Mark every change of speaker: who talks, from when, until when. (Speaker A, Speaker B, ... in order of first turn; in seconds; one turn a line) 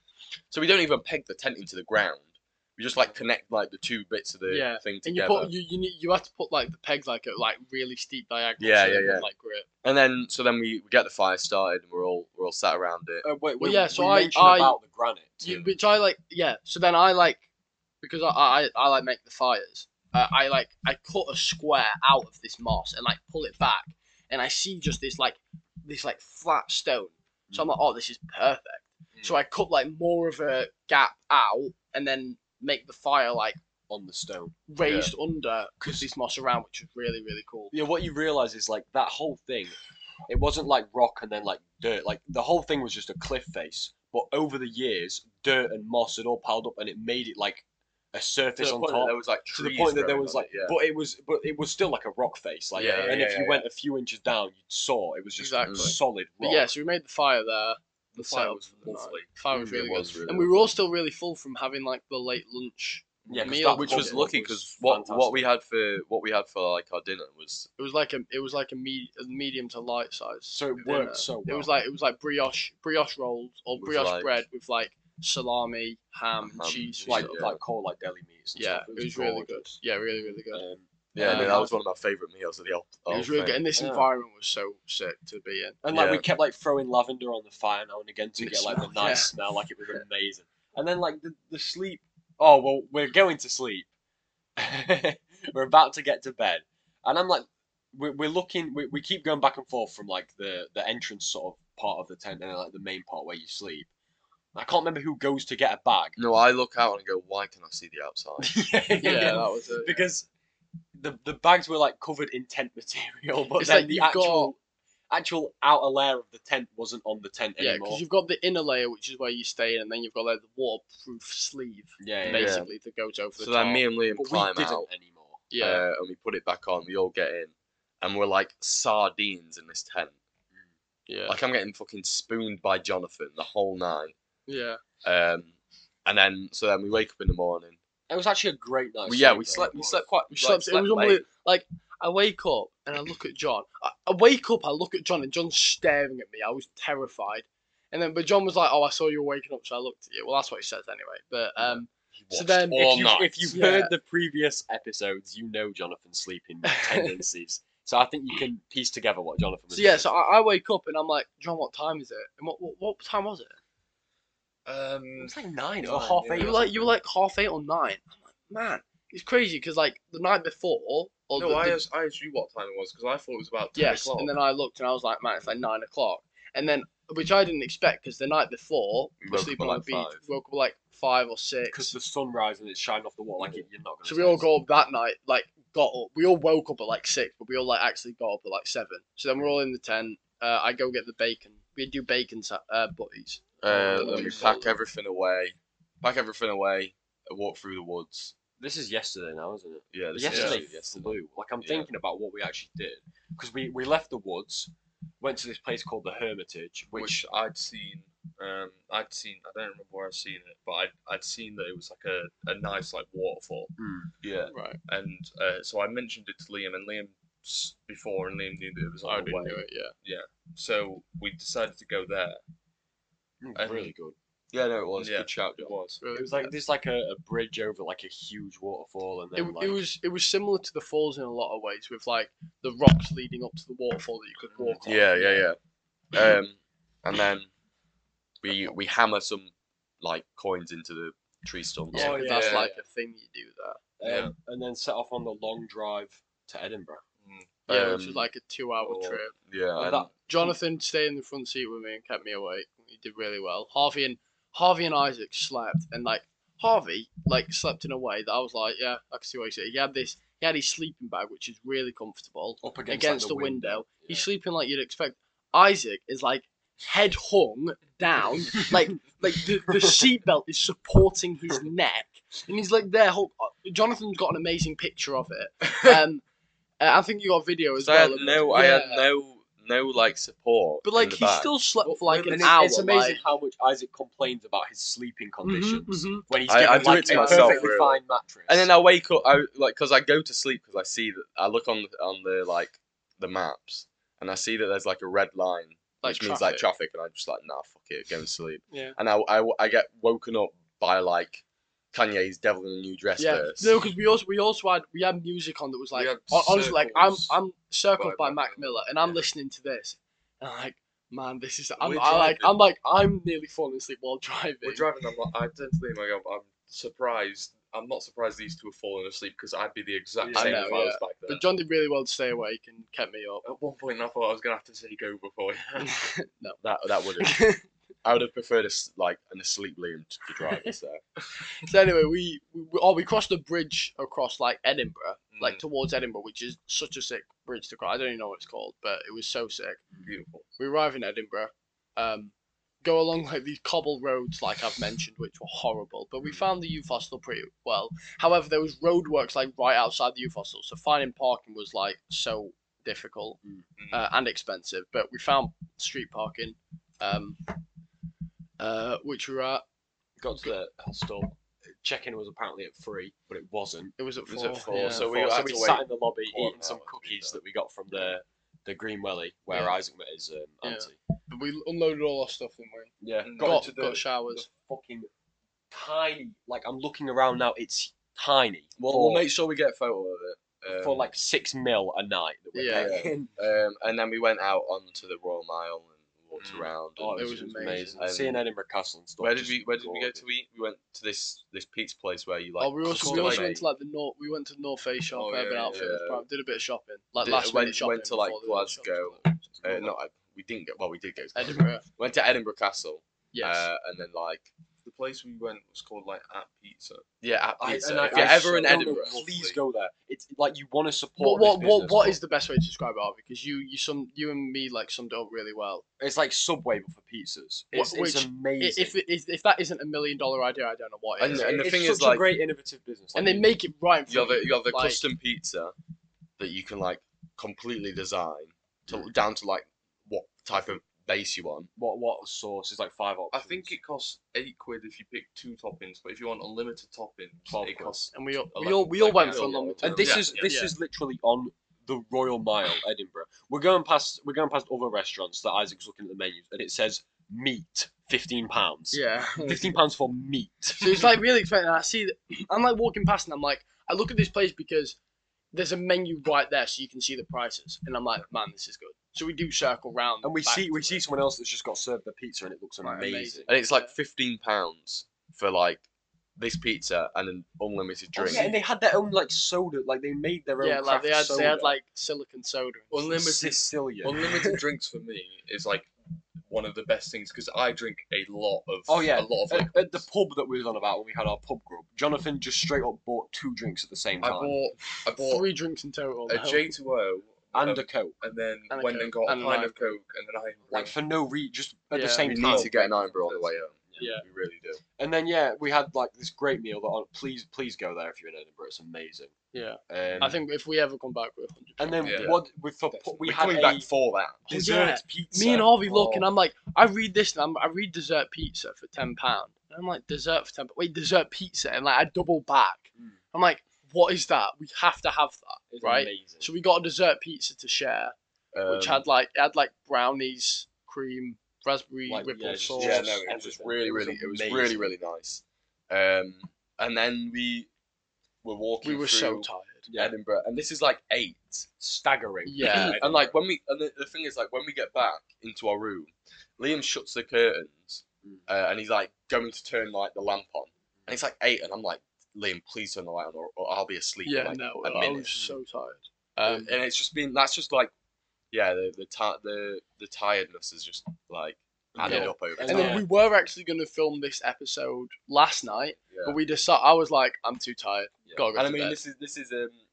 Speaker A: 0.5-5.5
Speaker B: 4.5-9.7
Speaker A: 8.6-9.3
Speaker A: 9.8-13.2
Speaker C: 13.2-15.6
Speaker B: 13.6-14.8
Speaker B: 15.4-17.4
Speaker B: 18.0-33.6
Speaker C: 33.9-34.6
Speaker B: 34.7-37.7
Speaker A: 34.8-35.1
Speaker C: 37.7-56.7
Speaker A: 48.6-50.8
Speaker A: 52.8-53.6
Speaker D: 52.8-53.2
Speaker B: 55.4-64.2
Speaker A: 55.6-55.9
Speaker D: 58.1-59.3
Speaker C: 59.5-60.2
Speaker A: 59.7-60.7
Speaker D: 63.2-63.5
Speaker C: 63.3-65.5
Speaker A: 63.6-67.7
Speaker B: 67.8-77.5
Speaker C: 70.5-71.7
Speaker A: 73.8-74.4
Speaker A: 76.4-77.6
Speaker C: 77.1-79.7
Speaker B: 78.5-80.6
Speaker C: 80.5-81.7
Speaker A: 81.1-83.6
Speaker B: 81.2-81.7
Speaker B: 83.1-85.8
Speaker C: 83.8-84.1
Speaker C: 85.8-93.9
Speaker A: 85.9-86.2
Speaker B: 88.4-89.3
Speaker C: 94.6-103.9
Speaker C: 104.5-106.2
Speaker A: 106.2-109.4
Speaker C: 108.4-110.3
Speaker B: 109.0-110.0
Speaker C: 111.0-114.6
Speaker B: 113.6-114.5
Speaker C: 115.1-118.0
Speaker B: 117.6-123.8
Speaker C: 122.0-122.6
Speaker A: 122.2-122.7
Speaker A: 123.4-124.9
Speaker C: 124.1-125.5
Speaker B: 125.5-125.8
Speaker A: 125.6-130.2
Speaker B: 131.1-131.4
Speaker A: 131.3-134.1
Speaker B: 134.5-134.8
Speaker A: 135.0-135.5
Speaker A: 136.0-137.8
Speaker C: 138.1-139.8
Speaker A: 139.0-141.2
Speaker D: 139.7-140.0
Speaker B: 140.3-153.9
Speaker A: 152.3-153.6
Speaker C: 152.7-160.1
Speaker B: 156.6-157.1
Speaker B: 159.7-163.6
Speaker D: 164.7-166.6
Speaker C: 165.2-166.9
Speaker B: 165.8-171.8
Speaker D: 171.3-174.3
Speaker B: 173.7-181.9
Speaker A: 179.2-180.2
Speaker C: 181.7-184.5
Speaker B: 184.1-194.8
Speaker A: 193.6-198.3
Speaker D: 194.1-194.4
Speaker C: 198.6-207.2
Speaker A: 199.9-201.9
Speaker D: 200.3-200.6
Speaker D: 206.9-213.7
Speaker C: 213.8-214.1
Speaker A: 214.2-214.5
Speaker B: 214.5-214.8
Speaker D: 214.9-222.4
Speaker B: 219.0-219.9
Speaker C: 223.4-224.1
Speaker D: 223.5-223.9
Speaker A: 224.5-225.8
Speaker D: 225.0-226.0
Speaker B: 226.0-226.5
Speaker C: 226.1-229.8
Speaker B: 229.3-235.5
Speaker D: 234.5-234.8
Speaker A: 234.8-235.6
Speaker A: 236.1-237.5
Speaker A: 238.4-242.2
Speaker B: 241.9-243.8
Speaker C: 241.9-242.8
Speaker D: 242.2-242.7
Speaker C: 244.0-247.0
Speaker D: 244.0-244.3
Speaker D: 247.2-247.5
Speaker A: 247.7-248.3
Speaker B: 247.7-249.3
Speaker D: 248.8-249.2
Speaker A: 249.5-250.1
Speaker C: 249.8-250.5
Speaker B: 250.3-276.2
Speaker C: 262.6-264.3
Speaker B: 276.8-279.0
Speaker A: 277.8-281.5
Speaker B: 280.8-283.2
Speaker C: 282.1-288.7
Speaker B: 285.4-287.8
Speaker A: 286.4-303.7
Speaker B: 296.0-296.6
Speaker B: 298.7-299.0
Speaker B: 303.2-314.9
Speaker D: 305.9-307.4
Speaker D: 307.9-309.2
Speaker D: 311.8-312.6
Speaker D: 314.6-321.4
Speaker C: 320.2-320.6
Speaker B: 320.3-323.4
Speaker A: 320.3-320.7
Speaker D: 323.4-325.9
Speaker B: 325.8-326.6
Speaker A: 326.6-327.4
Speaker B: 327.2-327.6
Speaker A: 328.0-331.0
Speaker B: 331.6-339.8
Speaker D: 335.3-335.6
Speaker D: 340.0-340.4
Speaker B: 340.6-353.4
Speaker D: 353.8-354.0
Speaker B: 353.9-357.6
Speaker B: 358.6-359.6
Speaker C: 360.2-363.9
Speaker B: 364.0-365.1
Speaker A: 364.3-367.4
Speaker C: 364.6-370.9
Speaker B: 369.5-369.8
Speaker B: 370.6-374.5
Speaker C: 373.0-375.1
Speaker D: 373.2-373.7
Speaker C: 375.7-379.2
Speaker A: 378.8-381.1
Speaker C: 380.7-383.3
Speaker B: 382.5-382.9
Speaker A: 382.7-387.4
Speaker D: 386.4-386.7
Speaker C: 387.0-390.2
Speaker B: 387.1-388.0
Speaker A: 388.0-388.4
Speaker A: 389.2-393.5
Speaker B: 392.6-399.3
Speaker C: 392.8-393.6
Speaker D: 395.1-395.8
Speaker A: 395.6-396.2
Speaker A: 397.2-404.5
Speaker B: 401.3-401.8
Speaker B: 403.3-403.7
Speaker D: 404.8-407.0
Speaker A: 407.2-409.2
Speaker C: 407.6-412.2
Speaker D: 408.0-409.6
Speaker B: 411.2-415.8
Speaker C: 416.0-419.0
Speaker B: 417.7-421.7
Speaker A: 421.2-422.2
Speaker C: 421.3-423.5
Speaker B: 423.1-425.0
Speaker A: 424.1-425.7
Speaker A: 426.4-431.7
Speaker C: 431.8-433.7
Speaker D: 433.3-440.5
Speaker C: 437.5-438.1
Speaker B: 438.1-440.7
Speaker A: 439.3-439.7
Speaker C: 439.8-451.1
Speaker B: 448.9-449.8
Speaker B: 450.8-455.0
Speaker B: 455.5-461.0
Speaker C: 460.2-463.5
Speaker B: 462.8-463.9
Speaker A: 463.5-465.8
Speaker A: 466.4-468.5
Speaker C: 468.1-471.8
Speaker B: 470.6-473.1
Speaker D: 472.9-475.9
Speaker C: 473.1-474.2
Speaker B: 474.2-474.6
Speaker D: 476.4-480.0
Speaker C: 478.9-484.6
Speaker D: 484.2-485.5
Speaker B: 485.2-486.7
Speaker D: 486.3-490.9
Speaker C: 487.5-488.2
Speaker B: 488.7-489.9
Speaker C: 490.7-492.7
Speaker B: 491.9-492.3
Speaker A: 492.2-494.8
Speaker D: 492.3-493.5
Speaker B: 494.0-494.2
Speaker C: 495.0-499.3
Speaker B: 499.5-502.3
Speaker C: 499.9-500.4
Speaker C: 501.8-503.9
Speaker D: 502.0-502.4
Speaker A: 503.2-504.4
Speaker C: 504.5-506.1
Speaker B: 504.5-518.1
Speaker D: 505.9-506.2
Speaker C: 515.7-516.5
Speaker A: 518.5-519.0
Speaker B: 518.7-523.1
Speaker C: 522.1-524.9
Speaker A: 522.8-527.7
Speaker A: 528.4-531.7
Speaker B: 528.8-529.9
Speaker C: 529.9-530.1
Speaker C: 531.8-533.4
Speaker B: 532.5-533.0
Speaker A: 532.6-545.4
Speaker B: 544.2-546.7
Speaker A: 546.4-547.9
Speaker A: 548.5-553.0
Speaker C: 552.0-553.0
Speaker B: 552.0-559.0
Speaker A: 556.0-556.4
Speaker A: 558.3-559.8